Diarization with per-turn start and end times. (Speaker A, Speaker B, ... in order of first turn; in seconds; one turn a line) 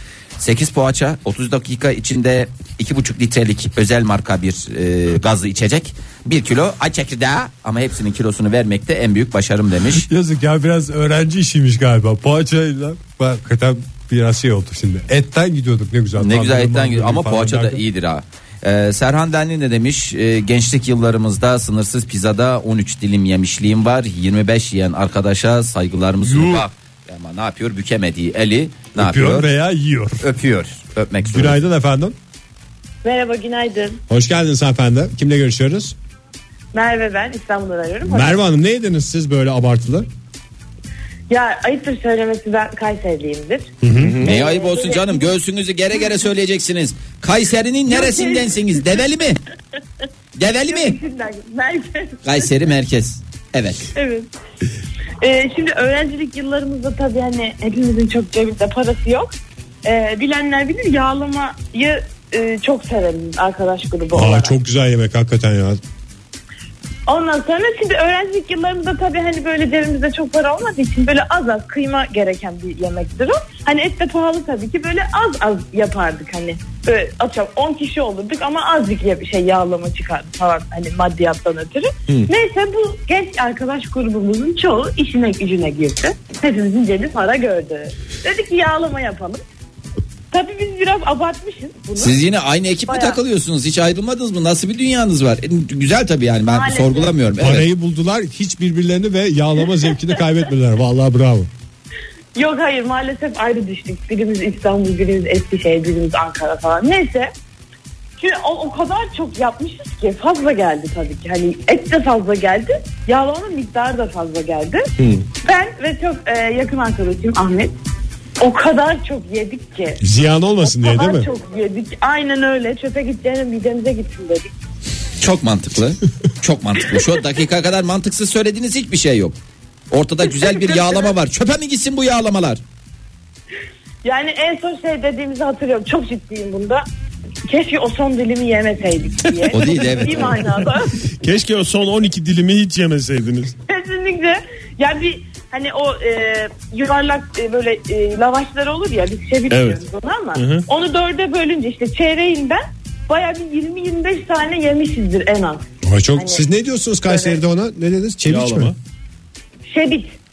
Speaker A: 0.4-10.1
Speaker B: 9.9-17.8
Speaker A: 16.1-29.5
Speaker B: 26.2-26.6
Speaker B: 28.9-30.2
Speaker A: 30.2-31.6
Speaker B: 31.2-32.1
Speaker C: 33.0-34.0
Speaker B: 34.1-35.9
Speaker C: 36.7-38.4
Speaker B: 38.0-40.1
Speaker C: 41.3-45.3
Speaker B: 43.8-44.2
Speaker D: 44.0-44.3
Speaker A: 44.2-49.4
Speaker C: 47.9-48.8
Speaker A: 50.4-51.0
Speaker C: 50.6-52.5
Speaker A: 52.2-53.9
Speaker C: 53.9-54.3
Speaker C: 55.2-59.3
Speaker C: 59.8-64.6
Speaker B: 64.1-65.8
Speaker C: 67.1-89.4
Speaker C: 90.3-92.2
Speaker A: 92.0-97.7
Speaker C: 92.9-93.2
Speaker C: 96.5-97.2
Speaker B: 97.3-101.5
Speaker C: 102.3-107.3
Speaker C: 108.2-114.9
Speaker D: 115.0-115.2
Speaker C: 115.4-117.7
Speaker C: 118.4-120.0
Speaker B: 120.0-121.3
Speaker C: 120.6-124.5
Speaker A: 125.2-129.3
Speaker A: 129.9-132.6
Speaker C: 130.2-131.1
Speaker C: 134.0-136.8
Speaker C: 137.5-141.0
Speaker A: 139.5-140.5
Speaker D: 141.2-143.5
Speaker C: 143.7-156.4
Speaker D: 149.5-149.8
Speaker D: 150.3-150.7
Speaker B: 155.8-158.7
Speaker C: 157.0-157.4
Speaker D: 158.3-158.8
Speaker C: 159.7-160.1